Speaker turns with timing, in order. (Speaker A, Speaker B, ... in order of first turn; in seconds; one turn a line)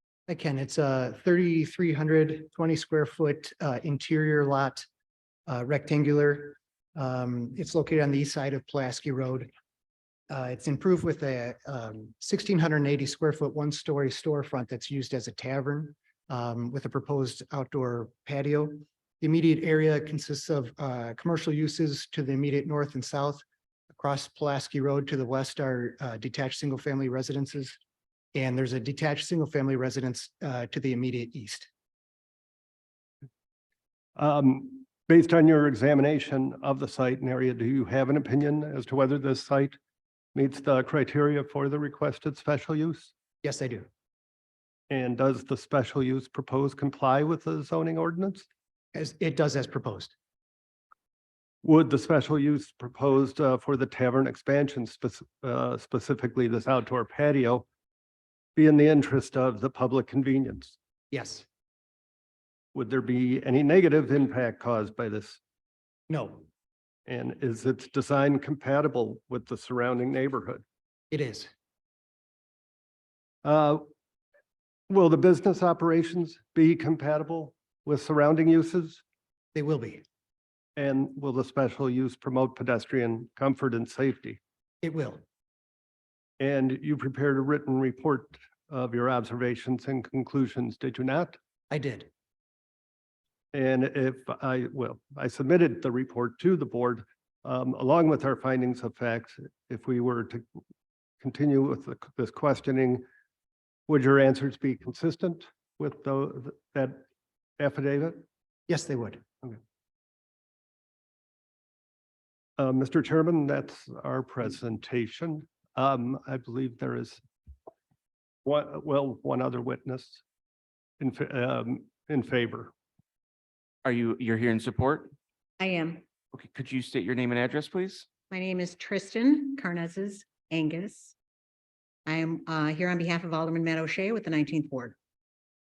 Speaker A: 0.3-4.8
Speaker A: 5.5-9.5
Speaker A: 10.3-27.8
Speaker A: 28.3-31.7
Speaker B: 34.2-39.8
Speaker B: 40.3-43.1
Speaker A: 43.4-43.9
Speaker B: 44.9-48.5
Speaker A: 48.9-50.1
Speaker B: 51.6-57.7
Speaker B: 58.6-60.8
Speaker A: 61.1-61.4
Speaker B: 62.8-65.4
Speaker A: 66.1-66.5
Speaker B: 67.1-70.6
Speaker A: 71.1-71.5
Speaker B: 73.4-73.8
Speaker B: 74.9-79.0
Speaker A: 79.5-80.0
Speaker B: 80.8-84.4
Speaker A: 84.8-85.2
Speaker B: 86.4-91.3
Speaker A: 91.7-92.1
Speaker B: 93.5-100.4
Speaker B: 101.2-103.0
Speaker B: 103.9-107.0
Speaker B: 107.6-108.2
Speaker A: 108.7-109.2
Speaker B: 112.6-117.2
Speaker B: 118.5-120.2
Speaker B: 121.0-122.7
Speaker C: 123.8-125.1
Speaker D: 125.6-126.0
Speaker C: 126.3-128.1
Speaker D: 128.3-131.1
Speaker D: 132.1-135.0